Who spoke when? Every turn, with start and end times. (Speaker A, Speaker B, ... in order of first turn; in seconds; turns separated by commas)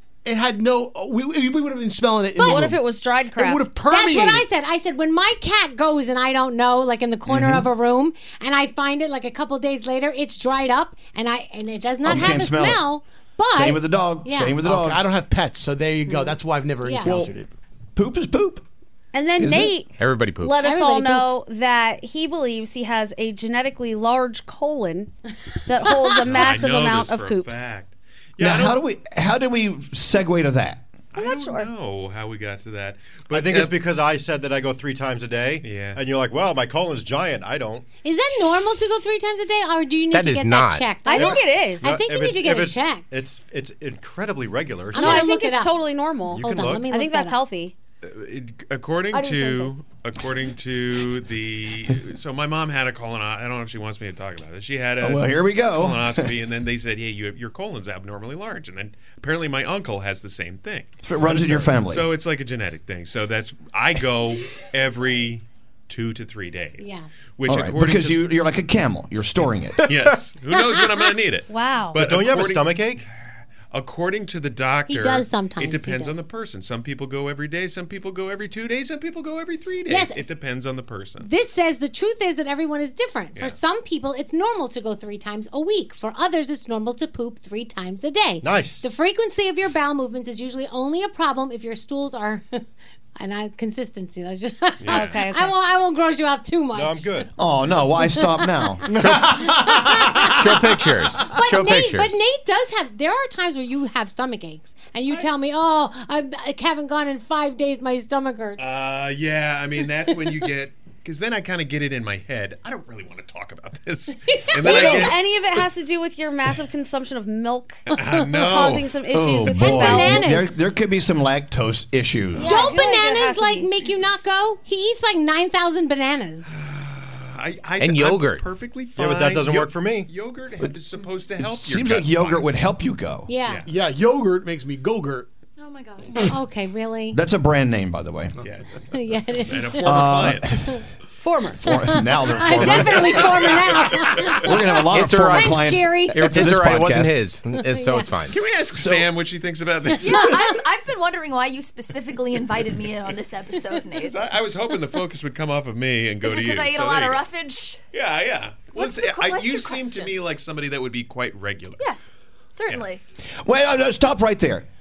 Speaker A: 0.2-2.8, Speaker B: 2.3-2.6, Speaker C: 2.4-3.6, Speaker A: 3.3-4.5, Speaker B: 3.9-14.6, Speaker D: 7.3-7.6, Speaker E: 12.0-12.8, Speaker E: 13.5-15.0, Speaker A: 14.6-17.5, Speaker B: 16.1-17.2, Speaker E: 17.0-17.3, Speaker E: 17.9-18.6, Speaker C: 19.1-27.6, Speaker E: 19.4-19.8, Speaker F: 20.0-20.5, Speaker B: 20.6-21.4, Speaker B: 26.0-26.4, Speaker D: 26.2-28.8, Speaker E: 28.4-30.9, Speaker D: 31.1-33.8, Speaker C: 31.2-31.7, Speaker G: 33.3-37.8, Speaker D: 35.6-36.0, Speaker B: 38.0-43.3, Speaker F: 40.1-40.9, Speaker C: 41.0-42.0, Speaker G: 41.1-45.2, Speaker B: 44.9-45.8, Speaker C: 44.9-47.7, Speaker G: 46.3-46.9, Speaker B: 46.4-47.4, Speaker D: 48.0-68.2, Speaker C: 49.1-49.7, Speaker E: 55.0-56.3, Speaker E: 61.0-62.1, Speaker B: 66.8-67.1, Speaker E: 67.5-69.9, Speaker D: 69.8-73.0, Speaker C: 71.5-72.0, Speaker G: 71.9-73.0, Speaker D: 73.7-81.3, Speaker B: 74.9-76.2, Speaker B: 79.8-80.3, Speaker B: 81.2-92.6, Speaker G: 88.4-88.9, Speaker B: 93.2-97.2, Speaker D: 94.8-95.2, Speaker C: 94.9-95.5, Speaker G: 96.7-97.3, Speaker E: 97.4-100.5, Speaker B: 98.0-108.6, Speaker F: 100.4-102.1, Speaker D: 108.6-115.2, Speaker B: 114.3-115.1, Speaker C: 114.6-117.9, Speaker D: 117.9-118.9, Speaker B: 118.0-118.5, Speaker C: 118.4-120.3, Speaker E: 119.1-122.6, Speaker B: 119.5-120.5, Speaker C: 122.3-123.7, Speaker B: 122.4-126.5, Speaker D: 126.6-132.5, Speaker F: 127.8-128.4, Speaker G: 129.0-130.1, Speaker E: 131.4-133.3, Speaker B: 133.3-133.7, Speaker D: 133.4-133.7, Speaker A: 133.7-135.3, Speaker H: 135.6-136.2, Speaker B: 136.3-137.2, Speaker E: 137.1-138.4, Speaker D: 138.4-140.5, Speaker B: 138.9-140.1, Speaker E: 139.8-140.8, Speaker C: 141.2-141.8, Speaker E: 141.6-143.6, Speaker B: 141.7-146.3, Speaker D: 142.9-143.6, Speaker E: 144.4-147.2, Speaker F: 144.9-145.4, Speaker F: 146.1-148.3, Speaker B: 147.5-148.2, Speaker D: 148.3-150.5, Speaker E: 148.7-149.1, Speaker B: 149.9-150.6, Speaker H: 150.0-154.1, Speaker D: 154.0-157.3, Speaker H: 156.2-157.8, Speaker D: 157.9-161.9, Speaker H: 158.7-160.2, Speaker H: 161.8-163.0, Speaker E: 163.4-164.7